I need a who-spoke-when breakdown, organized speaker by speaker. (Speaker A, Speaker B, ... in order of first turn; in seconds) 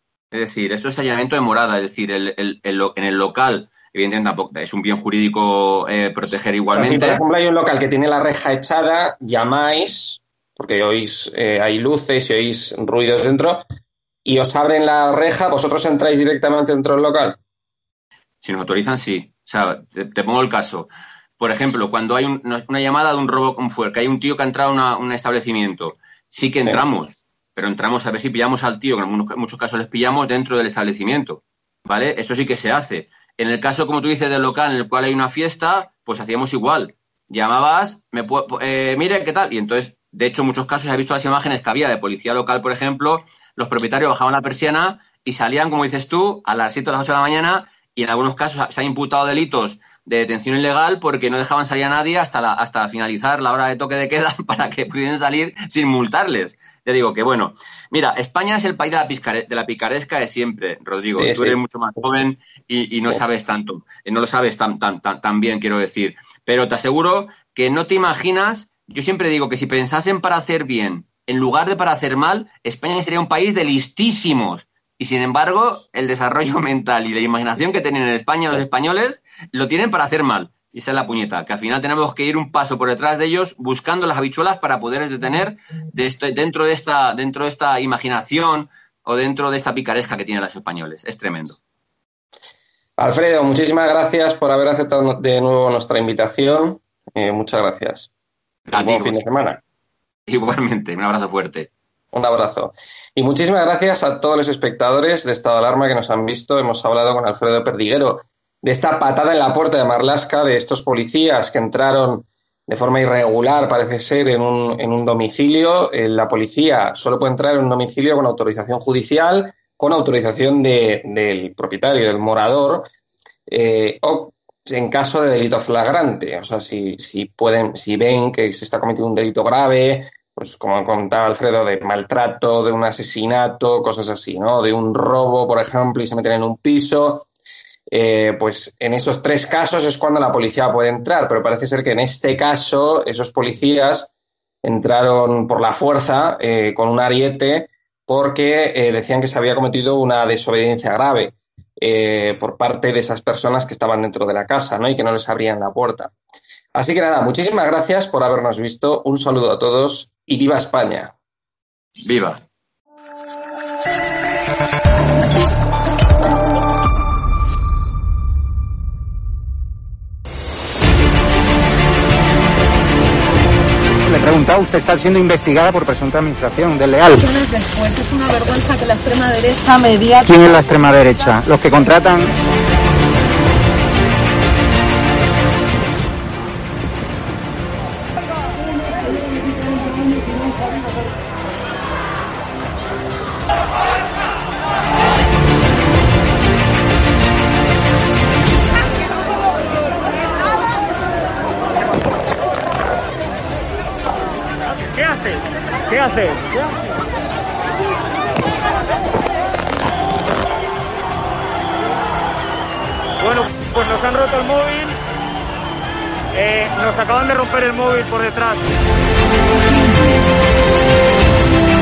Speaker A: 0.3-7.2, 18.4-91.6, 98.7-99.2, 100.3-101.7, 162.0-162.4
Speaker B: 6.7-13.6, 14.2-17.4, 61.2-62.0, 93.0-98.1, 98.7-99.6, 102.1-122.9, 123.5-137.3, 137.9-144.1, 144.6-156.1, 156.7-161.1
Speaker C: 174.1-177.2, 180.2-182.3
Speaker D: 177.1-180.2
Speaker E: 204.8-206.8, 213.2-215.0, 216.3-218.7